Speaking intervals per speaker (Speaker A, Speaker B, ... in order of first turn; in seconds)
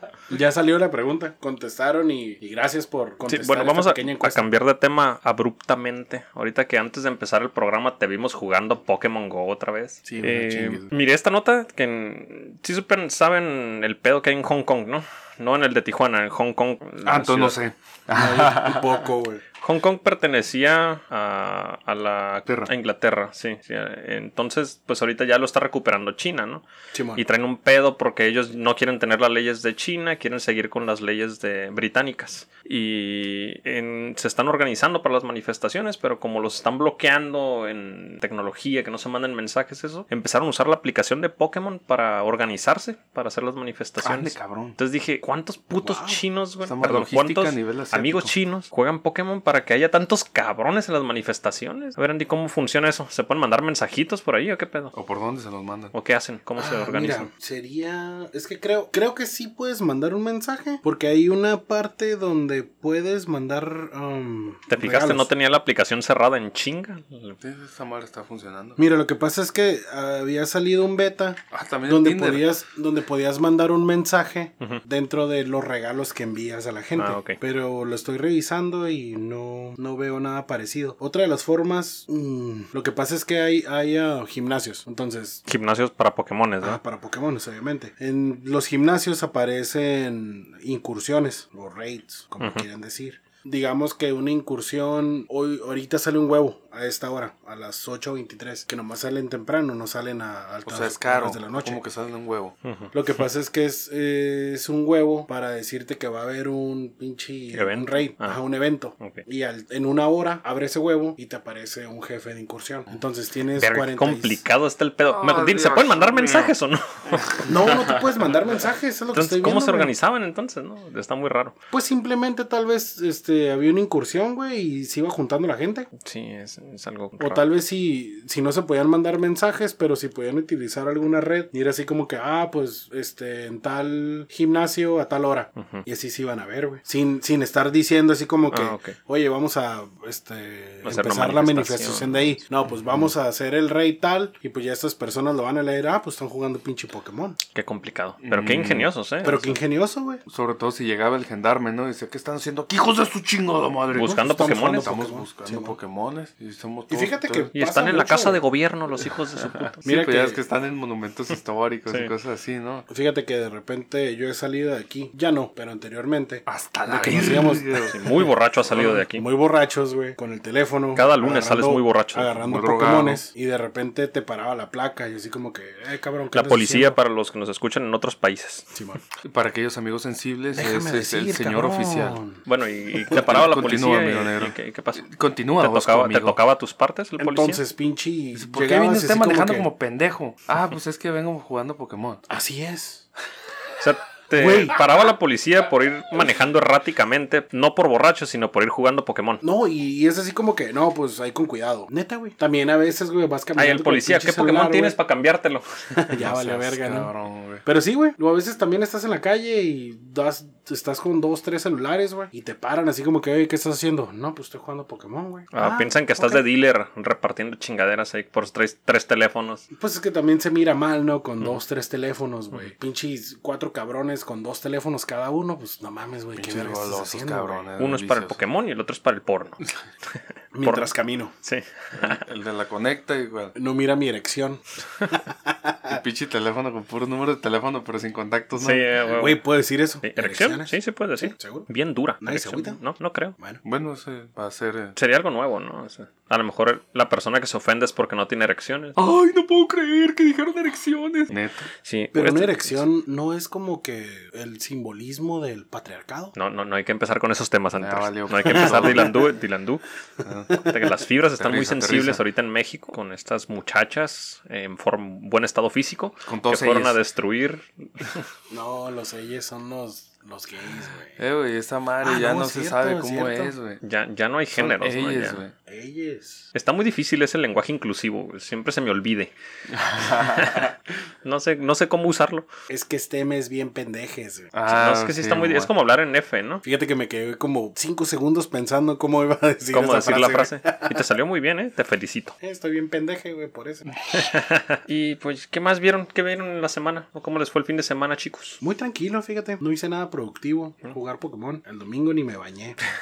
Speaker A: 0.3-4.5, 18.1-19.4, 26.9-27.2, 45.8-46.2, 56.6-65.3, 68.8-85.4, 86.6-101.8, 102.9-114.4, 117.4-119.9, 121.7-125.9, 127.2-147.4, 149.2-150.2, 154.0-155.8, 156.9-158.4, 159.8-160.4, 162.9-167.9, 168.7-177.0, 178.7-179.0, 180.5-182.4, 187.2-189.7, 192.3-193.1, 194.3-194.8, 199.4-204.9, 206.0-207.1, 207.6-216.4, 219.7-227.7, 230.5-231.3, 233.6-236.0, 239.1-241.7, 242.2-242.8, 252.1-256.3, 268.5-271.2, 272.0-273.5, 275.7-276.5, 282.7-284.5, 286.6-291.0, 292.4-293.9, 298.6-302.8
Speaker B: 3.3-17.6, 19.6-26.6, 27.1-54.9, 55.9-57.3, 64.7-67.4, 77.0-77.4, 85.5-86.8, 92.4-92.6, 102.6-102.9, 107.5-108.4, 113.5-118.0, 119.1-121.5, 126.0-127.4, 135.6-135.8, 138.5-138.9, 140.8-142.4, 147.5-149.6, 153.9-154.9, 157.5-159.8, 167.0-169.2, 170.9-172.3, 176.3-178.7, 182.4-185.1, 185.6-187.6, 193.8-199.4, 203.6-206.1, 215.5-219.6, 227.8-229.6, 230.6-230.9, 231.4-232.2, 238.6-239.4, 240.0-243.3, 244.9-249.0, 251.8-252.8, 256.3-259.8, 260.5-268.2, 273.8-275.4, 276.5-279.3, 280.0-280.7, 281.2-282.4, 284.7-286.6, 289.7-292.3, 294.1-298.6
Speaker C: 10.1-10.9, 17.0-19.1, 22.4-22.7, 44.0-44.8, 46.6-48.3, 54.9-55.9, 67.4-68.8, 71.5-72.5, 100.7-102.5, 115.0-116.5, 117.1-118.0, 148.2-148.9, 150.2-157.5, 159.3-162.8, 166.4-168.0, 172.4-173.2, 179.2-182.2, 183.1-186.4, 188.3-192.2, 206.2-207.6, 226.3-228.4, 231.9-233.6, 235.9-239.1, 243.6-244.9, 248.9-251.7, 257.8-259.2, 260.2-260.6, 261.3-262.2, 266.2-267.0, 271.2-273.8, 274.5-275.5, 279.7-280.7, 284.5-285.7